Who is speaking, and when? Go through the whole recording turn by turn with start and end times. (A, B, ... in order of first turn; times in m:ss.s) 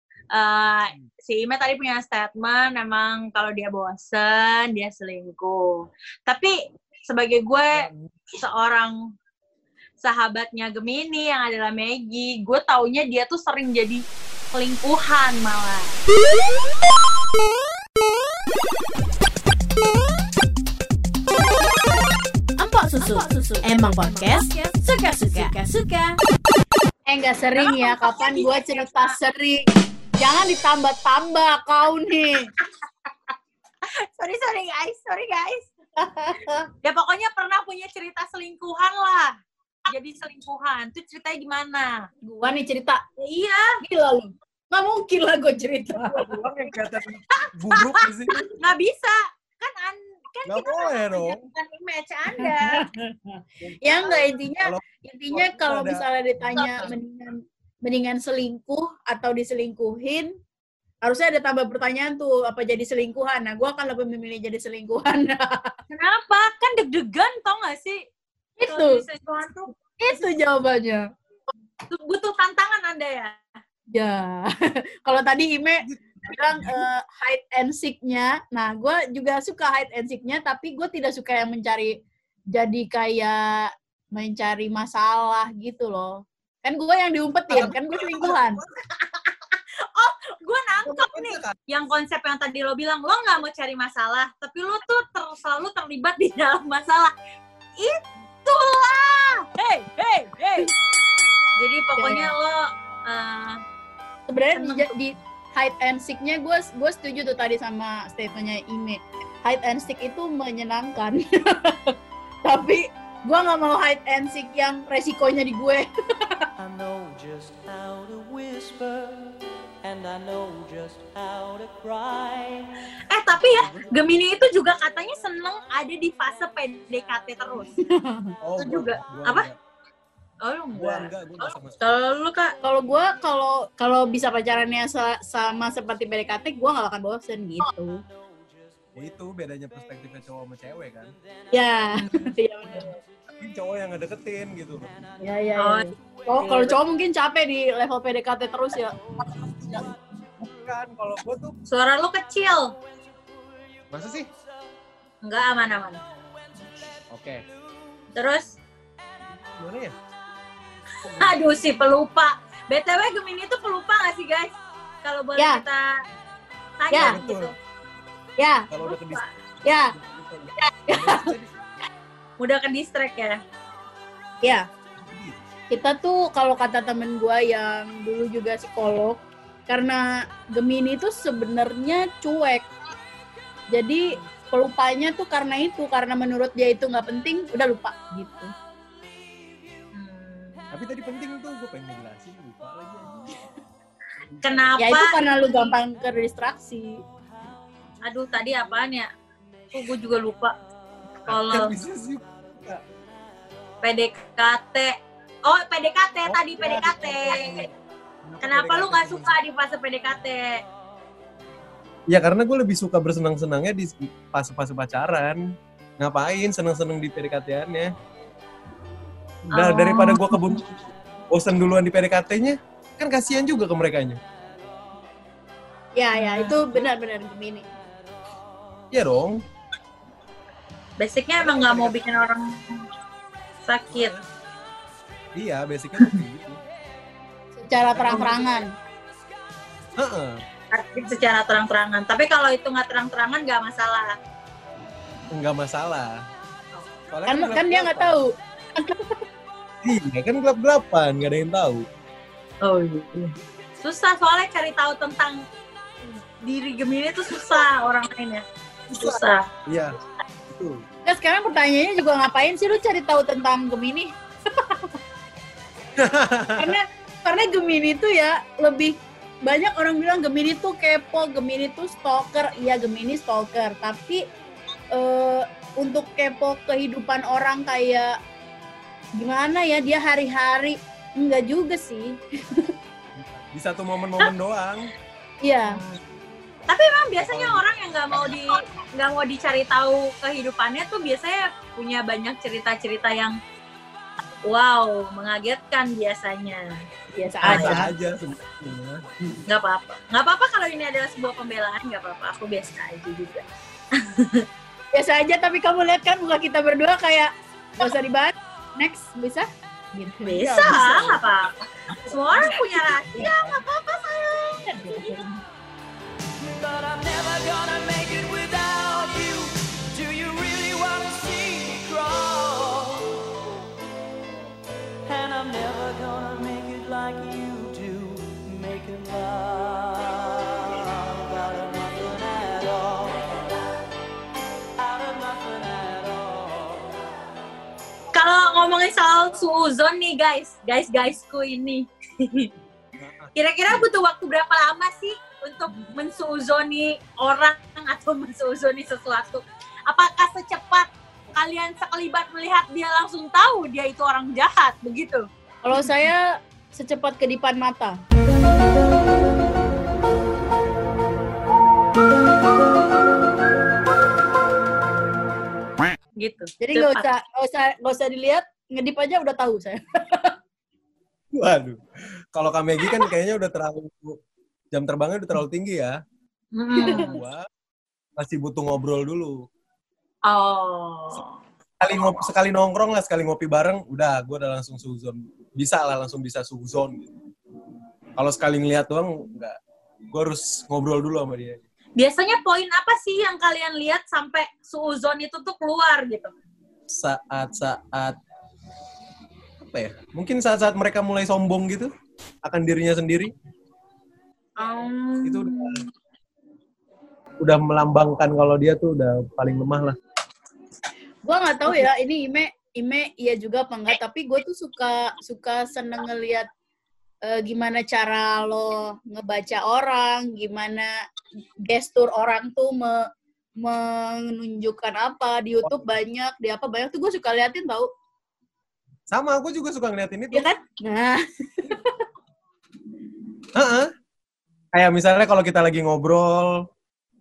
0:00.3-0:06.5 A
0:07.1-0:09.0 A
0:07.7-0:08.3 B
0:10.0-0:14.0 A
0:14.5-0:16.0 A
0:22.6-0:26.2 C
0:27.1-0:29.7 D
0:27.6-0:29.2 A
0:30.2-0:32.5 D
0:33.9-0:35.7 A
0:36.0-0:36.7 D
0:36.8-0:39.4 A
0:39.9-0:42.1 A
0:42.2-0:43.0 D
0:43.2-0:43.8 A
0:43.8-0:46.3 D
0:45.9-0:48.4 B
0:47.7-0:48.1 A
0:48.6-0:52.8 A
0:50.5-0:51.4 B
0:52.3-1:00.3 D
0:54.6-0:56.0 B
0:56.6-0:56.9 A
1:01.0-1:05.7 D
1:05.9-1:08.0 A
1:08.6-1:09.0 D
1:08.7-1:09.7 A
1:10.0-1:11.1 D
1:11.9-1:13.4 A
1:13.9-1:14.5 D
1:15.1-1:21.9 D
1:15.8-1:16.7 B
1:22.5-1:28.6 D
1:27.5-1:28.8 B
1:30.0-1:37.1 A
1:30.8-1:31.6 B
1:37.8-1:40.7 A
1:41.6-1:43.6 A
1:42.0-1:42.3 D
1:44.3-1:56.5 D
1:44.6-1:44.9 A
1:56.6-2:02.7 E
2:03.1-2:07.7 A
2:03.5-2:03.9 E
2:07.9-2:08.3 D
2:08.4-2:09.6 B
2:08.6-2:09.5 A
2:10.4-2:12.6 A
2:10.7-2:11.8 B
2:12.6-2:18.0 D
2:19.0-2:21.2 B
2:21.5-2:22.9 D
2:23.4-2:24.9 B
2:25.2-2:29.9 D
2:25.6-2:26.8 A
2:30.5-2:31.6 B
2:31.7-2:32.7 A
2:33.9-2:34.3 B
2:35.2-2:36.0 A
2:37.1-2:37.4 B
2:38.2-2:38.6 A
2:39.6-2:40.0 B
2:41.0-2:41.5 B
2:41.1-2:44.5 A
2:45.0-2:45.8 A
2:45.4-2:45.6 D
2:46.8-2:47.6 A
2:46.9-2:47.2 D
2:47.0-2:47.5 B
2:48.4-2:48.7 D
2:48.7-2:49.2 B
2:48.8-2:49.3 A
2:49.6-2:49.9 D
2:49.9-2:51.5 B
2:50.9-2:51.3 D
2:52.4-2:53.4 A
2:55.0-2:55.4 B
2:55.7-3:02.7 D
3:03.7-3:08.5 D
3:09.9-3:10.6 A
3:10.7-3:13.4 B
3:14.3-3:14.8 B
3:14.4-3:15.6 A
3:14.8-3:17.0 D
3:18.0-3:19.1 A
3:19.7-3:20.6 A
3:21.3-3:22.8 B
3:21.3-3:21.8 A
3:23.8-3:24.9 A
3:25.5-3:27.5 A
3:26.3-3:27.7 B
3:28.2-3:29.4 B
3:28.4-3:30.6 A
3:32.1-3:35.4 B
3:36.0-3:37.9 B
3:39.5-3:40.7 B
3:39.5-3:40.4 A
3:41.3-3:44.2 B
3:46.0-3:47.7 D
3:46.2-3:46.6 A
3:48.9-3:49.4 B
3:51.0-3:52.8 A
3:51.4-3:52.1 B
3:53.6-3:54.1 A
3:53.9-3:54.3 B
3:55.4-3:56.6 B
3:57.6-3:58.7 D
3:57.9-3:58.6 B
4:00.0-4:00.4 B
4:00.7-4:04.1 A
4:05.3-4:06.2 B
4:07.1-4:08.2 B
4:07.3-4:09.2 D
4:09.8-4:11.9 B
4:12.6-4:15.4 A
4:16.4-4:19.5 A
4:19.0-4:20.0 B
4:20.5-4:20.8 B
4:21.1-4:24.9 D
4:26.0-4:26.8 B
4:26.6-4:34.3 D
4:34.9-4:38.2 D
4:39.2-4:42.7 D
4:43.2-4:44.9 B
4:45.4-4:45.8 D
4:45.7-4:46.0 A
4:46.7-4:53.4 A
4:47.2-4:47.6 B
4:54.4-4:56.8 A
4:57.2-4:57.9 D
4:57.4-4:59.4 B
4:57.5-4:57.8 A
4:59.5-5:03.4 A
5:04.0-5:04.4 A
5:04.9-5:11.2 D
5:10.2-5:11.5 A
5:10.6-5:11.2 B
5:11.9-5:13.3 D
5:12.0-5:15.2 A
5:14.7-5:15.4 D
5:16.4-5:23.4 E
5:25.1-5:33.3 E
5:34.8-5:37.0 E
5:38.1-5:42.5 A
5:43.0-5:43.3 B
5:43.4-5:55.2 A
5:55.6-5:58.0 D
6:06.2-6:07.1 A
6:06.6-6:10.4 D
6:11.3-6:11.8 B
6:12.4-6:14.2 B
6:14.7-6:16.0 B
6:16.6-6:17.1 A
6:16.8-6:17.2 D
6:16.8-6:17.5 B
6:18.2-6:19.4 B
6:20.3-6:21.4 A
6:21.8-6:27.1 B
6:28.2-6:29.6 B
6:30.1-6:31.6 B
6:32.0-6:36.3 A
6:36.9-6:38.2 B
6:39.6-6:41.9 B
6:42.4-6:43.3 B
6:44.6-6:45.9 A
6:45.2-6:45.8 B
6:47.4-6:50.0 B
6:51.2-6:56.5 D
6:57.2-7:00.9 D
7:01.6-7:07.9 D
7:05.6-7:05.9 B
7:09.1-7:10.5 B
7:10.3-7:12.0 D
7:13.6-7:13.9 B
7:14.7-7:16.7 B